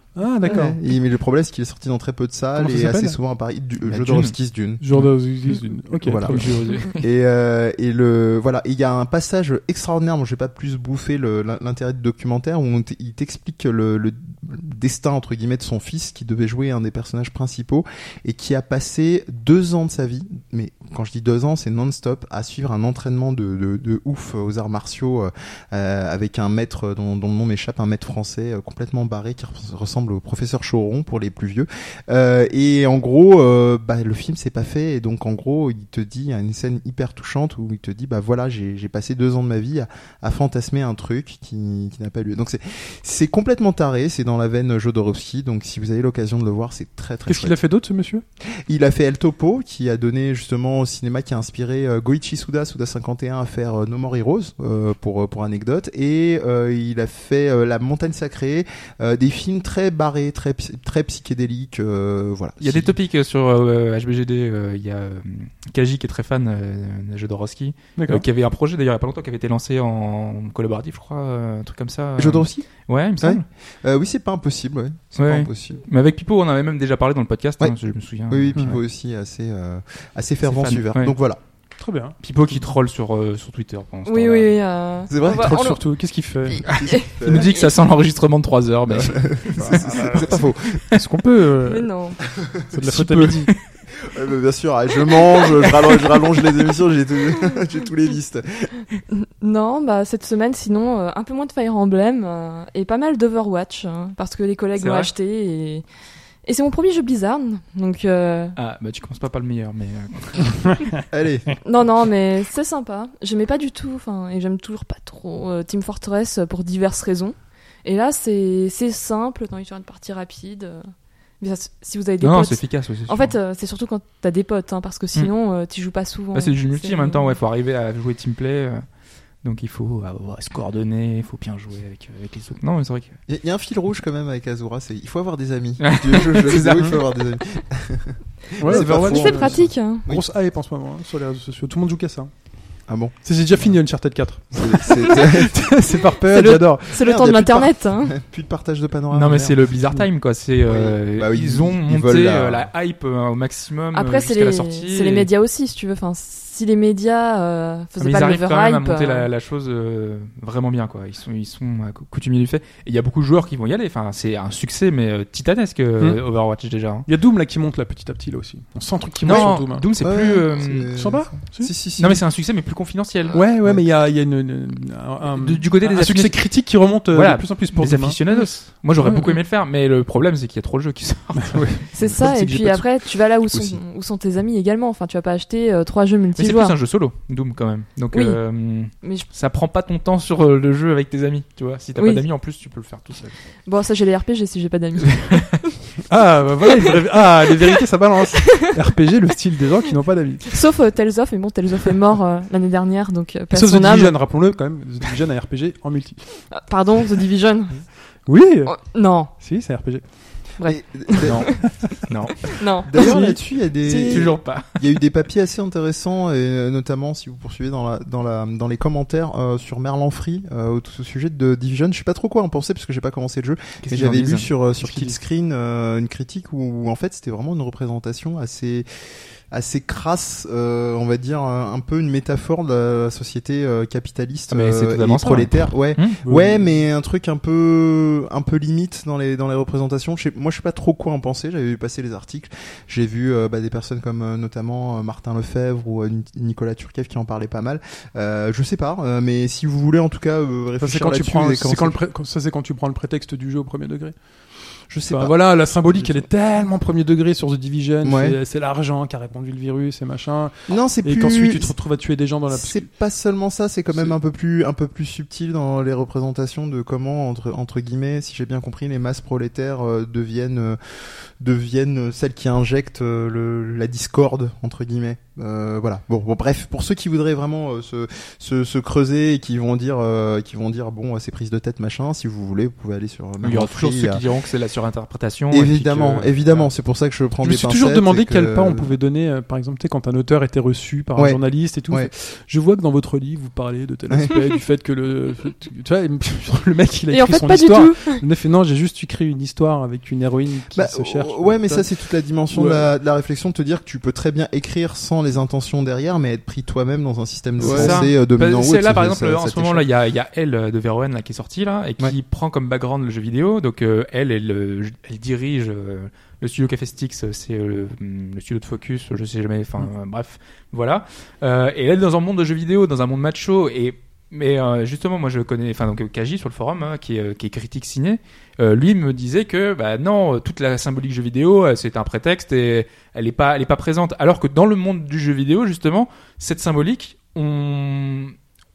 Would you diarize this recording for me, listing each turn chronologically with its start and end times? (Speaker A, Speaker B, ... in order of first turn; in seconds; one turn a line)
Speaker A: 0.1-0.8
Speaker B: 0.3-4.8
Speaker A: 2.5-3.2
Speaker C: 3.9-4.3
Speaker A: 4.8-6.6
Speaker B: 5.9-47.5
Speaker C: 6.2-7.0
Speaker A: 47.3-48.2
Speaker B: 48.6-62.9
Speaker C: 62.6-73.4
Speaker A: 68.0-68.2
Speaker B: 72.2-72.7
Speaker B: 73.2-75.8
Speaker C: 75.1-78.8
Speaker B: 78.3-81.4
Speaker C: 80.4-81.1
Speaker A: 81.8-82.2
Speaker C: 82.2-84.6
Speaker D: 84.0-85.8
Speaker B: 85.1-85.7
Speaker A: 85.3-86.7
Speaker D: 86.5-87.7
Speaker B: 86.6-87.5
Speaker C: 86.7-90.5
Speaker B: 88.9-91.0
Speaker A: 89.5-91.9
Speaker D: 91.6-92.2
Speaker B: 92.3-98.7
Speaker A: 92.7-93.5
Speaker D: 99.1-105.8
Speaker C: 104.8-105.1
Speaker D: 106.4-108.5
Speaker C: 108.5-110.9
Speaker B: 111.1-111.6
Speaker D: 111.6-120.8
Speaker D: 121.4-127.3
Speaker C: 122.2-123.3
Speaker C: 126.3-128.8
Speaker C: 129.4-133.2
Speaker B: 133.3-140.3
Speaker C: 135.8-137.0
Speaker A: 138.6-142.4
Speaker D: 138.7-140.1
Speaker B: 142.9-143.7
Speaker A: 143.2-147.0
Speaker B: 144.5-145.7
Speaker D: 146.3-148.1
Speaker B: 146.9-149.6
Speaker C: 149.1-155.3
Speaker B: 150.7-152.7
Speaker D: 153.9-159.3
Speaker C: 158.0-167.1
Speaker A: 167.1-169.9
Speaker C: 169.2-170.9
Speaker B: 169.2-172.2
Speaker A: 170.9-171.7
Speaker C: 172.0-173.4
Speaker A: 173.3-178.2
Speaker C: 175.3-182.3
Speaker D: 179.0-179.4
Speaker A: 181.5-181.8
Speaker D: 181.9-186.7
Speaker B: 183.5-183.8
Speaker C: 186.4-193.3
Speaker D: 188.1-188.4
Speaker D: 188.9-189.2
Speaker D: 191.9-192.2
Speaker D: 193.7-195.5
Speaker C: 195.2-195.4
Speaker A: 196.1-200.6
Speaker D: 200.5-204.1
Speaker A: 203.5-206.5
Speaker D: 206.5-207.9
Speaker A: 208.2-210.0
Speaker D: 208.7-209.3
Speaker D: 210.6-211.8
Speaker B: 210.6-211.7
Speaker C: 211.2-212.6
Speaker D: 212.5-213.1
Speaker B: 212.8-228.9
Speaker A: 213.0-213.4
Speaker C: 214.0-214.8
Speaker C: 223.8-224.5
Speaker A: 224.8-225.1
Speaker B: 229.5-252.0
Speaker C: 234.5-236.2
Speaker A: 236.2-236.6
Speaker A: 250.8-262.9
Speaker B: 254.9-256.2
Speaker B: 258.0-258.4
Speaker B: 260.7-261.8
Speaker B: 262.5-284.2
Speaker C: 283.4-286.7
Speaker B: 285.5-288.9
Speaker A: 287.4-301.9
Speaker B: 291.1-292.1
Speaker B: 294.1-294.4
Speaker D: 297.1-298.2
Speaker B: 300.7-309.9
Speaker A: 302.5-302.9
Speaker A: 307.6-308.1
Speaker C: 307.6-338.3